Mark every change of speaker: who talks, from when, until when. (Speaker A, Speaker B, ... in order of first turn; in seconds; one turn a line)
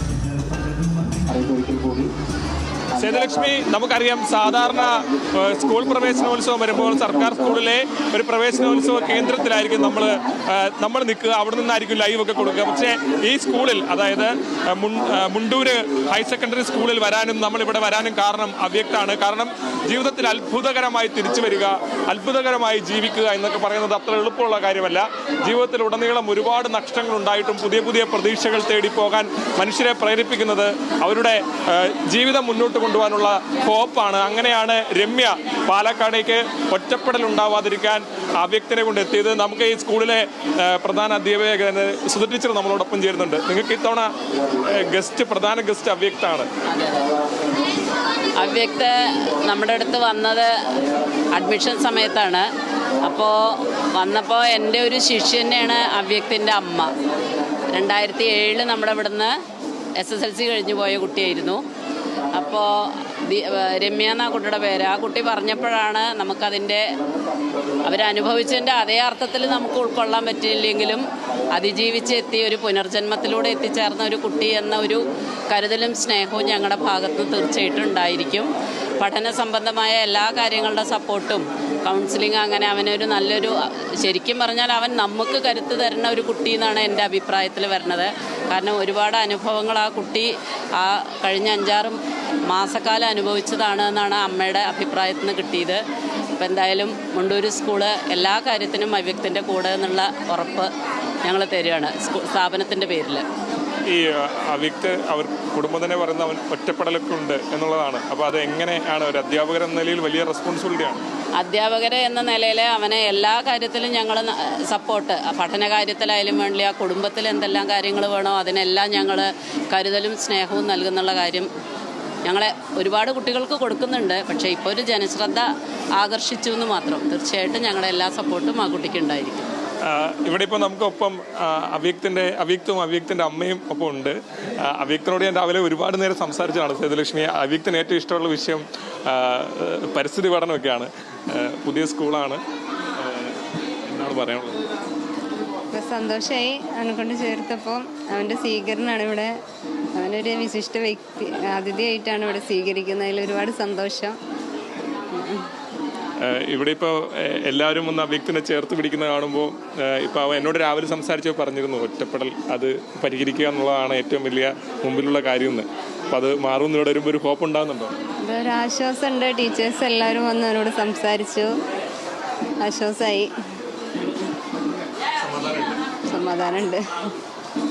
Speaker A: 2.9-44.1
Speaker A: 44.6-46.5
Speaker B: 46.7-47.1
Speaker B: 48.4-52.5
Speaker B: 53.0-56.9
Speaker B: 57.7-59.3
Speaker B: 60.0-61.6
Speaker B: 62.3-66.9
Speaker B: 67.8-95.8
Speaker B: 96.4-100.7
Speaker B: 101.2-103.2
Speaker A: 103.9-111.0
Speaker B: 111.4-121.5
Speaker B: 122.2-125.5
Speaker B: 126.0-129.5
Speaker A: 129.8-142.4
Speaker A: 142.9-144.6
Speaker C: 145.7-149.3
Speaker C: 149.9-154.2
Speaker C: 155.1-155.4
Speaker A: 156.2-167.9
Speaker C: 168.2-171.5
Speaker C: 172.6-173.3
Speaker A: 175.2-175.8
Speaker C: 176.1-176.9